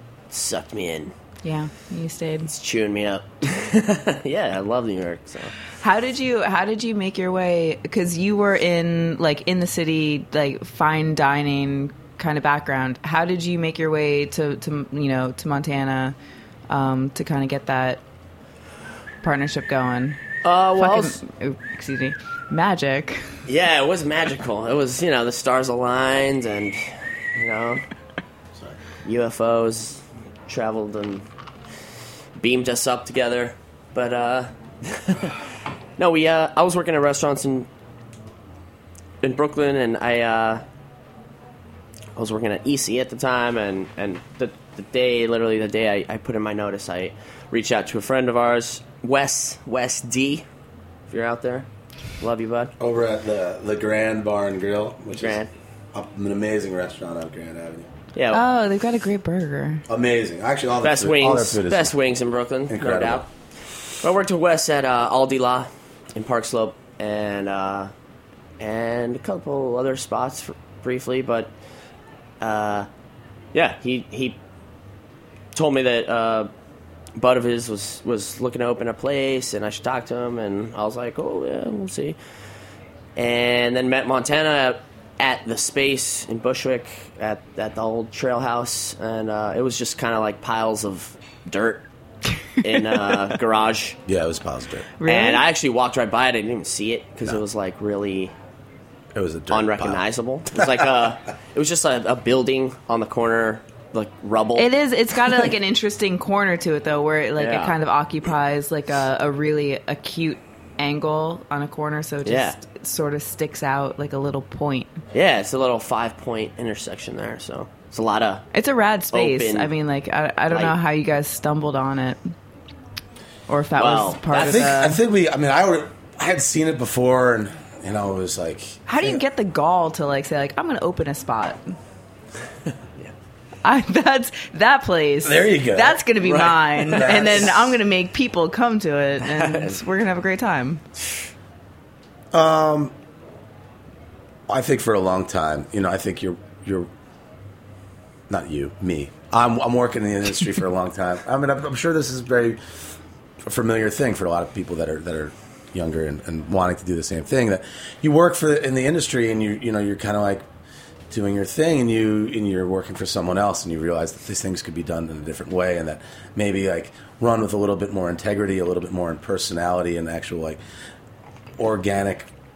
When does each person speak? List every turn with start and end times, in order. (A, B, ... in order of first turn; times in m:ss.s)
0:00.3-0:01.1 A
0:01.4-0:02.5 B
0:02.5-0:05.5 A
0:05.8-0:16.1 B
0:16.7-0:18.0 B
0:19.2-0:20.2 B
0:20.4-0:21.2 A
0:20.8-0:23.3 B
0:23.5-0:26.8 A
0:27.3-0:27.8 A
0:29.0-0:31.2 A
0:32.4-0:35.4 A
0:36.0-0:37.7 A
0:39.2-0:40.6 A
0:42.2-0:50.4 A
0:51.1-0:51.7 A
0:52.2-0:52.7 A
0:52.8-0:55.4 C
0:55.2-0:55.5 A
0:55.9-0:57.9 C
0:58.1-0:58.4 A
0:58.3-0:59.8 B
0:59.9-1:01.9 C
1:00.8-1:03.3 A
1:02.7-1:03.2 C
1:04.0-1:07.9 A
1:08.6-1:11.5 A
1:12.4-1:12.9 A
1:13.5-1:14.4 A
1:15.5-1:16.5 A
1:17.2-1:22.2 A
1:23.2-1:31.8 A
1:32.6-1:34.0 A
1:34.0-1:34.9 C
1:35.0-1:35.4 B
1:35.0-1:38.3 A
1:39.1-1:40.0 C
1:39.5-1:44.7 A
1:40.6-1:40.8 C
1:44.6-1:55.0 B
1:47.4-1:47.7 A
1:52.2-1:52.6 A
1:55.1-1:58.5 A
1:58.5-2:02.2 B
1:59.1-1:59.7 A
2:03.5-2:05.0 B
2:03.8-2:04.8 A
2:04.3-2:09.2 C
2:08.9-2:11.7 B
2:13.6-2:20.8 B
2:15.2-2:16.0 C
2:16.2-2:17.4 A
2:16.9-2:17.7 C
2:19.2-2:19.8 A
2:22.3-2:22.9 C
2:24.5-2:26.9 C
2:28.3-2:32.6 C
2:33.4-2:40.4 C
2:41.1-2:50.6 C
2:51.6-2:52.3 C